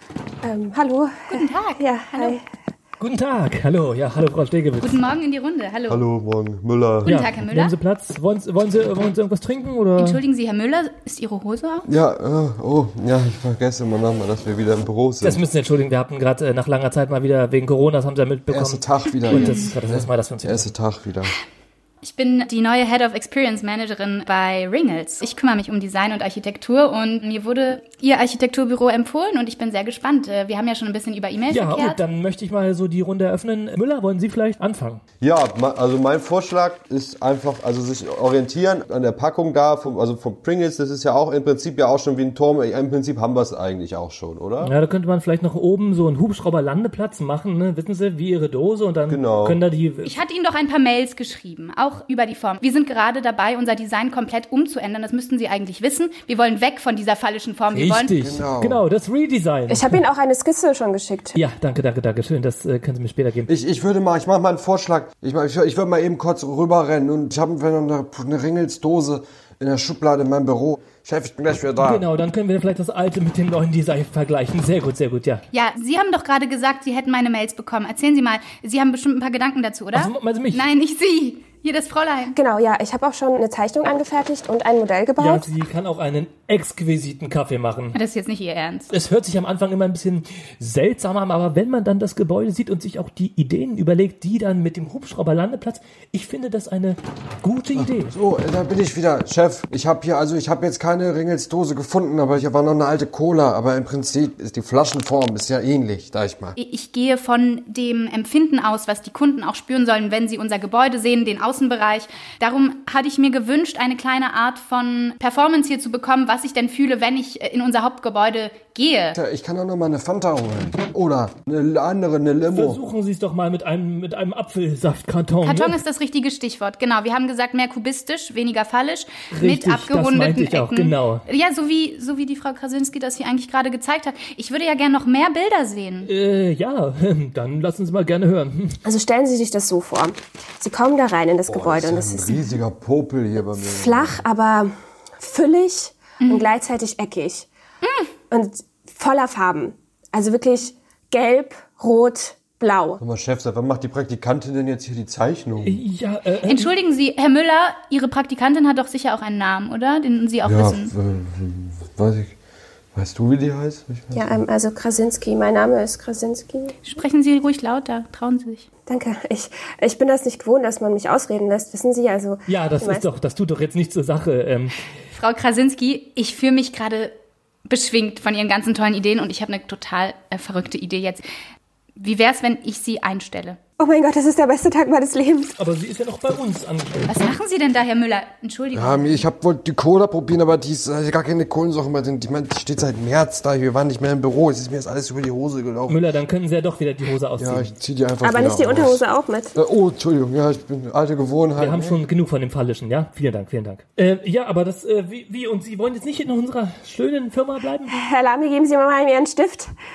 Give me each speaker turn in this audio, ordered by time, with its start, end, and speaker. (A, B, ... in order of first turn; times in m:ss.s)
0:00.4-0:02.4 A
0:01.3-0:02.4 B
0:03.0-0:05.0 C
0:04.8-0:06.0 B
0:05.9-0:07.1 D
0:07.0-0:07.7 B
0:07.1-0:10.2 C
0:10.0-0:11.9 B
0:11.8-0:15.4 D
0:15.2-0:20.7 C
0:18.5-0:21.3 D
0:22.0-0:32.0 B
0:31.5-0:35.0 C
0:35.2-0:44.7 D
0:44.6-0:50.1 C
0:49.1-0:49.6 D
0:50.0-0:58.1 B
0:57.7-1:00.0 C
0:58.2-0:58.8 D
0:59.7-1:01.4 A
1:01.3-1:03.5 C
1:03.5-1:12.0 D
1:11.8-1:15.4 C
1:15.5-1:22.4 B
1:19.9-1:20.7 C
1:22.3-1:25.5 A
1:25.2-1:28.0 C
1:27.9-1:28.9 B
1:28.9-1:38.1 C
1:37.8-1:46.6 D
1:46.6-1:59.2 B
1:59.1-2:02.8 D
2:02.5-2:05.8 C
2:05.4-2:16.1 B
2:09.3-2:11.2 C
2:16.0-2:18.8 C
2:18.8-2:22.4 A
2:21.5-2:24.2 D
2:23.4-2:27.5 A
2:26.2-2:26.5 B
2:27.8-2:28.1 B
2:28.3-2:33.0 A
2:33.0-2:35.8 D
2:35.6-2:36.7 C
2:36.4-2:40.9 B
2:40.4-2:42.4 D
2:42.9-2:44.4 D
2:44.1-2:46.8 A
2:46.8-2:48.7 B
2:48.9-2:53.1 A
2:52.5-2:54.8 C
2:55.1-2:57.1 B
2:57.6-3:01.2 B
3:02.0-3:03.6 B
3:03.8-3:05.5 A
3:05.6-3:07.2 C
3:07.1-3:09.3 B
3:08.7-3:16.0 D
3:15.9-3:17.7 C
3:17.4-3:19.0 D
3:18.2-3:19.6 A
3:19.5-3:22.0 D
3:21.6-3:27.9 C
3:27.9-3:29.7 A